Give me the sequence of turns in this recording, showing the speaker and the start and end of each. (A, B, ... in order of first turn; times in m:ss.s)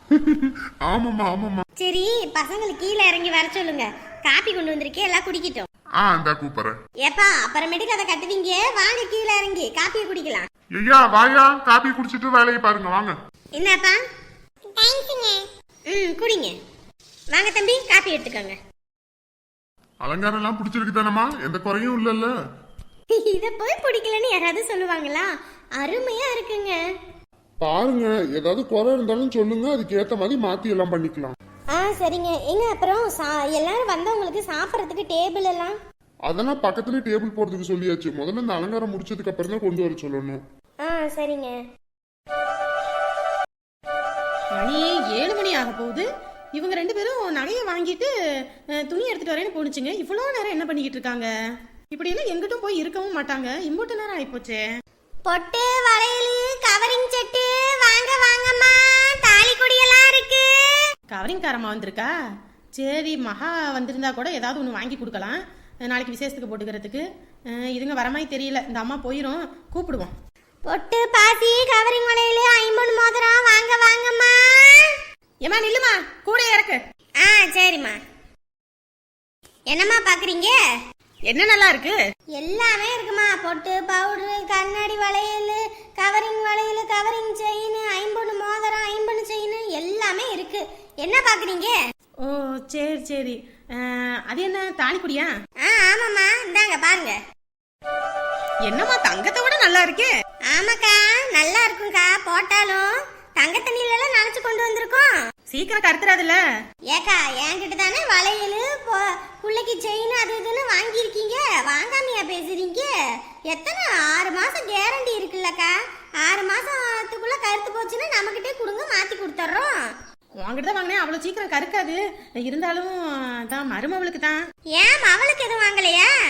0:00.1-0:01.6 A
0:01.8-0:05.7 B
0:06.0-0:06.8 A
0:07.0-0:10.5 B
0:10.8-0:13.1 A
0:13.6-0:14.0 B
0:14.8-0:16.6 B
0:17.3-0:18.6 B
0:20.0-0:22.3 A
0:23.1-0:26.8 B
0:27.6-0:31.4 A
0:31.7-0:35.8 B
0:36.3-0:40.4 A
0:40.8-0:41.6 B
0:44.6-0:48.1 C
0:48.8-0:51.3 C
0:51.9-0:54.6 C
0:55.2-1:00.8 B
1:01.1-1:02.1 C
1:02.8-1:10.1 C
1:10.6-1:14.9 B
1:15.4-1:16.8 C
1:17.2-1:18.0 B
1:19.7-1:20.6 B
1:21.3-1:22.0 C
1:22.4-1:31.7 B
1:32.2-1:35.3 C
1:35.6-1:37.2 B
1:38.6-1:40.1 C
1:40.5-1:45.1 B
1:45.5-1:46.4 C
1:46.9-1:52.9 B
1:53.5-1:59.9 B
2:00.4-2:04.4 C
2:04.7-2:06.1 B